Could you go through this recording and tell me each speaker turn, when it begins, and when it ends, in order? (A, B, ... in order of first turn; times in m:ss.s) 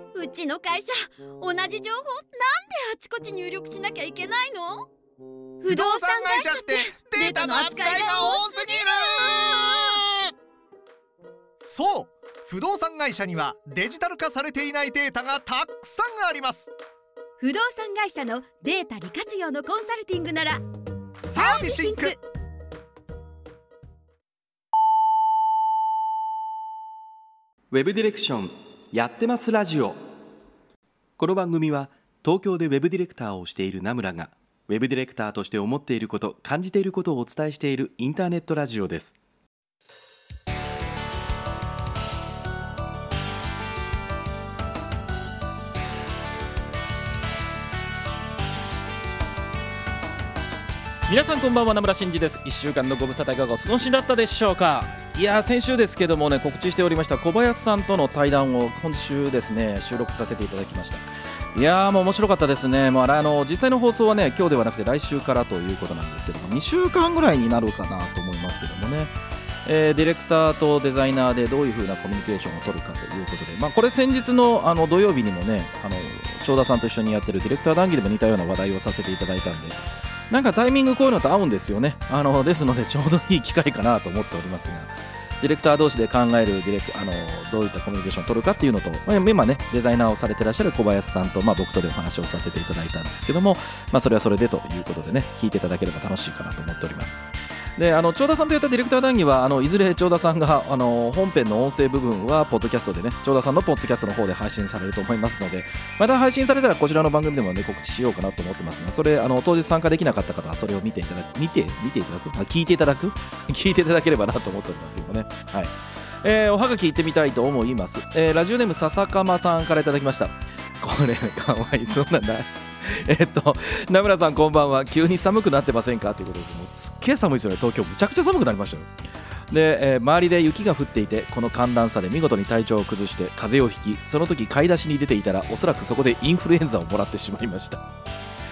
0:00.1-0:04.9 A
0:05.6-0:09.9 A
0:05.7-0:10.3 B
0:11.6-0:16.7 B
0:17.4-0:20.6 A
0:21.2-0:22.2 B
0:21.3-0:22.2 A
0:27.7-0:30.0 C
0:31.2-0:39.2 C
0:51.1-1:09.1 C
1:09.6-1:19.8 C
1:20.3-1:37.2 C
1:37.8-2:08.9 C
2:09.5-2:17.8 C